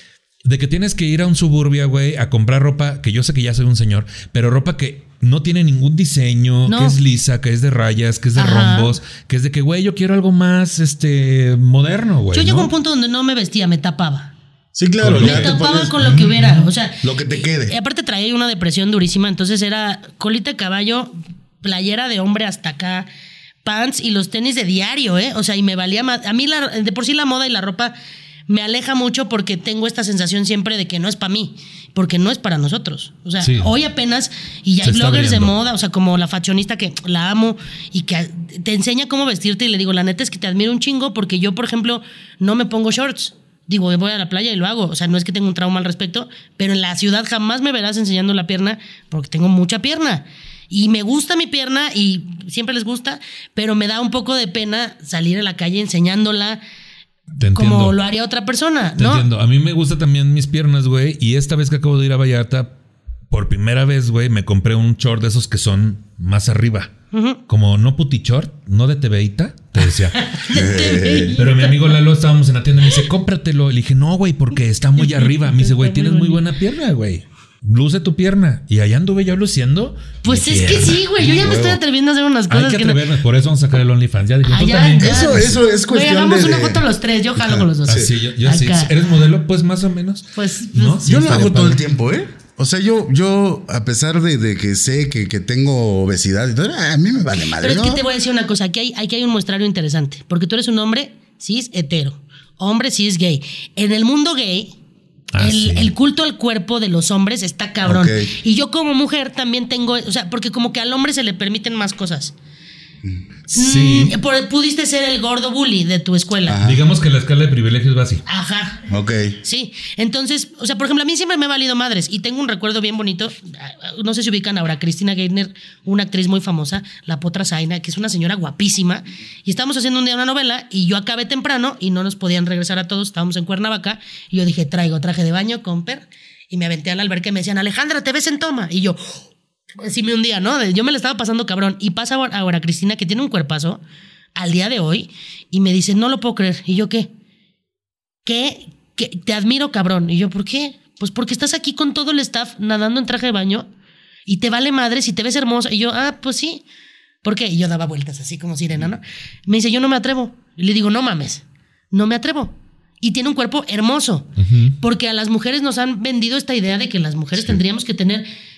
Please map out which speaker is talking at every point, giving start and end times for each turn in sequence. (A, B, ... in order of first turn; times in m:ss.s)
0:00.4-0:12.7 A
0:06.6-0:07.0 B
0:08.4-0:08.9 B
0:12.3-0:14.3 B
0:14.7-0:16.0 C
0:15.0-0:16.7 A
0:15.2-0:23.1 B
0:17.0-0:17.7 C
0:23.6-0:27.9 B
0:28.5-0:56.6 B
0:33.4-0:33.7 A
0:34.8-0:35.5 A
0:57.4-0:58.0 A
0:57.5-0:59.2 B
0:59.0-1:02.7 A
1:03.3-1:06.9 A
1:07.1-1:07.4 B
1:07.5-1:10.4 A
1:09.8-1:11.9 B
1:10.5-1:11.4 C
1:11.3-1:21.8 A
1:15.0-1:16.4 B
1:20.2-1:23.0 B
1:21.5-1:21.7 C
1:22.5-1:25.6 A
1:24.4-1:29.0 B
1:25.0-1:26.8 C
1:27.4-1:28.1 C
1:27.9-1:31.8 A
1:30.3-1:31.4 B
1:31.0-1:38.0 C
1:37.6-1:44.7 B
1:45.3-1:45.9 A
1:45.4-1:52.3 B
1:47.8-1:48.3 C
1:53.5-1:54.1 A
1:53.6-1:56.6 B
1:56.5-1:56.8 C
1:56.6-1:58.2 A
1:58.3-1:58.8 B
1:58.9-1:59.4 C
1:59.4-2:19.2 B
2:19.8-2:23.8 B
2:24.3-2:27.1 B
2:28.2-2:33.7 B
2:34.3-2:36.6 B
2:37.2-2:44.3 B
2:44.4-2:44.8 A
2:44.8-2:48.2 B